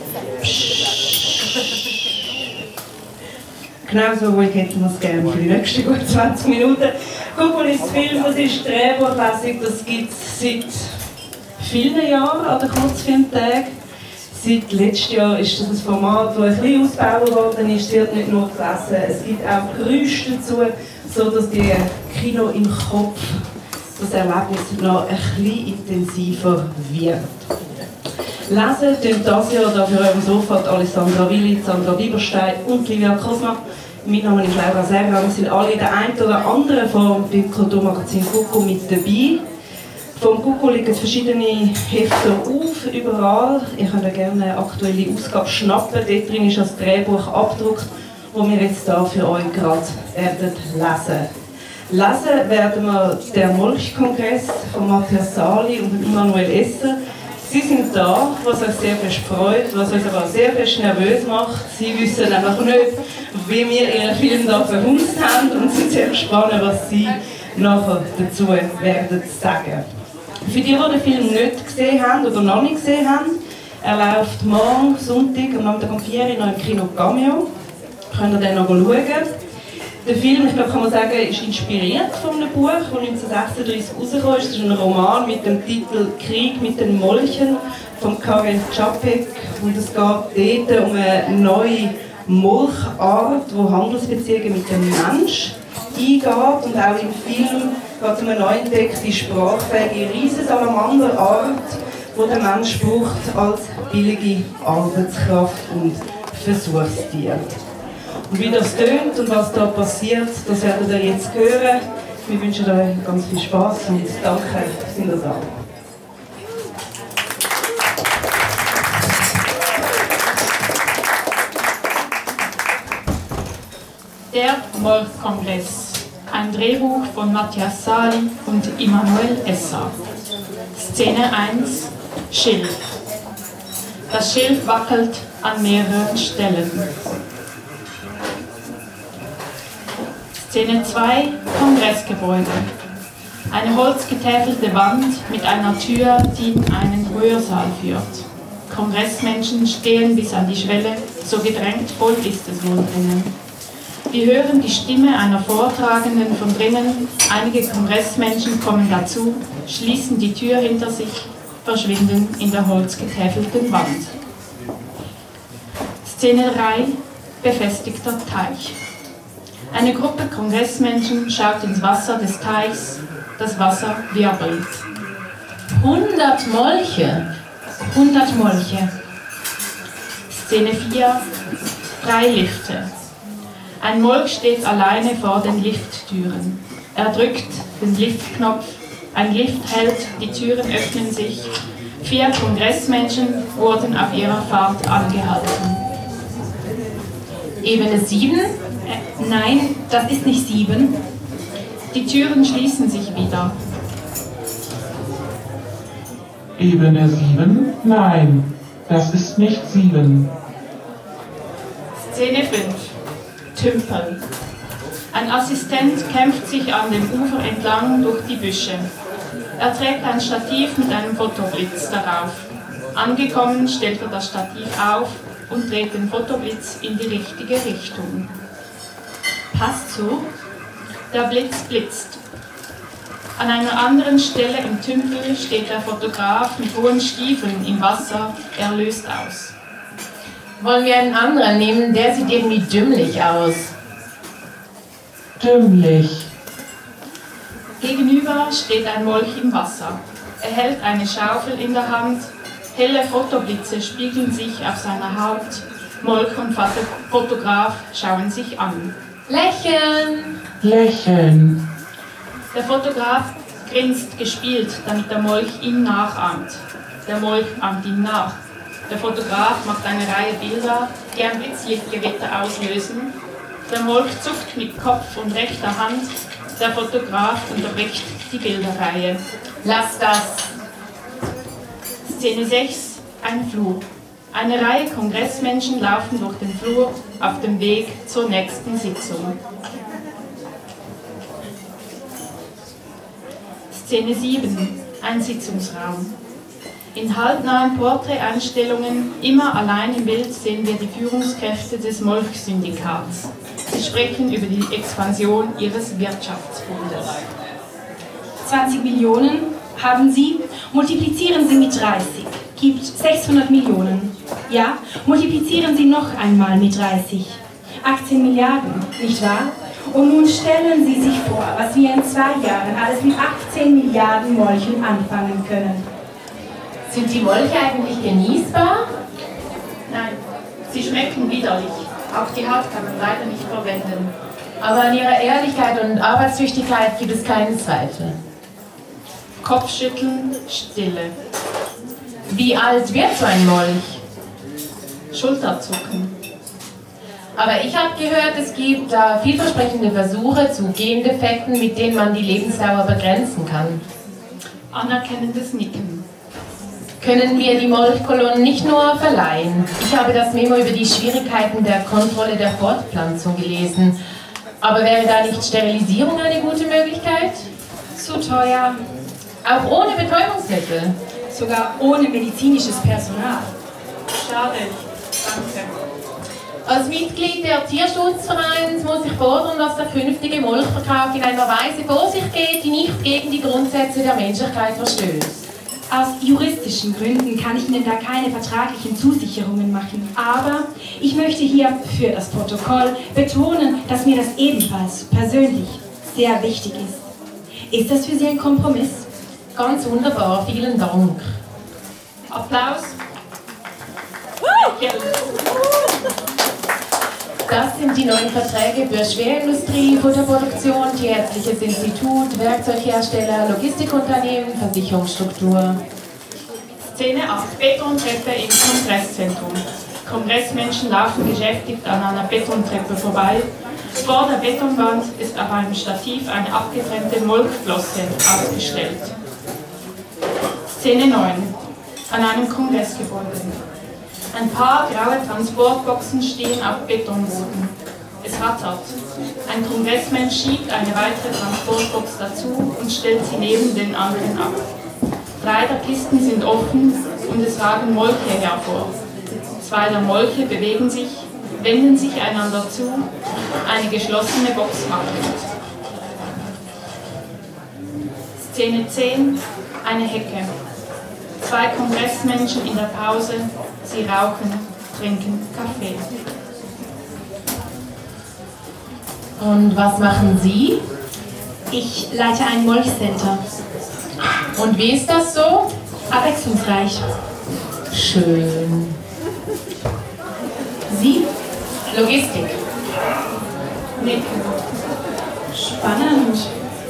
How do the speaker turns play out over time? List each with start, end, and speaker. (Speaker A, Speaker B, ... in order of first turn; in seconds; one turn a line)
Speaker A: 0.4-1.4
Speaker A: 3.8-10.9
Speaker A: 11.6-13.7
Speaker A: 14.3-27.3
Speaker A: 28.5-39.4
Speaker A: 40.1-51.3
Speaker A: 51.9-69.8
Speaker A: 70.4-77.5
Speaker A: 78.1-79.3
Speaker A: 80.0-107.5
Speaker A: 108.3-115.5
Speaker B: 124.3-129.9
Speaker B: 130.7-132.9
Speaker B: 134.1-137.1
Speaker B: 140.3-142.7
Speaker B: 143.5-153.3
Speaker B: 154.1-164.1
Speaker B: 166.0-168.8
Speaker B: 169.7-174.8
Speaker C: 175.7-177.3
Speaker C: 177.8-178.9
Speaker B: 180.3-181.3
Speaker B: 182.0-182.9
Speaker B: 183.8-195.8
Speaker C: 197.6-198.5
Speaker D: 198.8-201.0
Speaker B: 201.9-203.5
Speaker E: 206.6-210.3
Speaker B: 211.9-212.9
Speaker B: 213.5-214.2
Speaker B: 215.1-218.9
Speaker B: 219.6-228.3
Speaker D: 229.5-230.3
Speaker B: 231.1-232.2
Speaker B: 233.3-239.5
Speaker C: 240.6-243.7
Speaker E: 245.4-246.3
Speaker B: 247.8-258.9
Speaker C: 259.3-260.4
Speaker E: 260.6-261.6
Speaker B: 262.5-273.1
Speaker B: 273.7-279.2
Speaker C: 279.6-280.5
Speaker B: 282.0-289.4
Speaker B: 293.7-296.1
Speaker B: 296.9-307.2
Speaker D: 308.4-325.9
Speaker C: 326.9-328.8
Speaker B: 329.9-334.1
Speaker C: 334.6-338.1
Speaker B: 339.4-341.1
Speaker C: 342.3-344.0
Speaker B: 345.1-346.2
Speaker C: 347.4-353.8
Speaker B: 354.7-356.0
Speaker C: 357.0-364.0
Speaker C: 364.6-367.5
Speaker D: 367.9-368.8
Speaker C: 369.4-370.9
Speaker D: 371.3-373.5
Speaker B: 374.1-375.7
Speaker C: 376.6-385.4
Speaker D: 385.9-397.1
Speaker D: 397.7-399.1
Speaker C: 399.5-401.3
Speaker B: 402.3-403.0
Speaker B: 404.5-405.3
Speaker C: 407.5-415.8
Speaker B: 416.8-423.5
Speaker B: 424.0-429.1
Speaker B: 430.6-431.5
Speaker B: 432.1-433.6
Speaker B: 434.3-444.6
Speaker B: 445.4-448.9
Speaker B: 449.6-453.1
Speaker B: 453.6-455.5
Speaker B: 458.4-460.5
Speaker B: 461.4-466.1
Speaker C: 469.4-470.8
Speaker D: 471.7-473.4
Speaker C: 474.5-475.7
Speaker D: 476.1-477.0
Speaker C: 477.9-478.9
Speaker D: 480.9-481.3
Speaker C: 481.9-482.6
Speaker B: 484.0-484.6
Speaker D: 485.5-486.5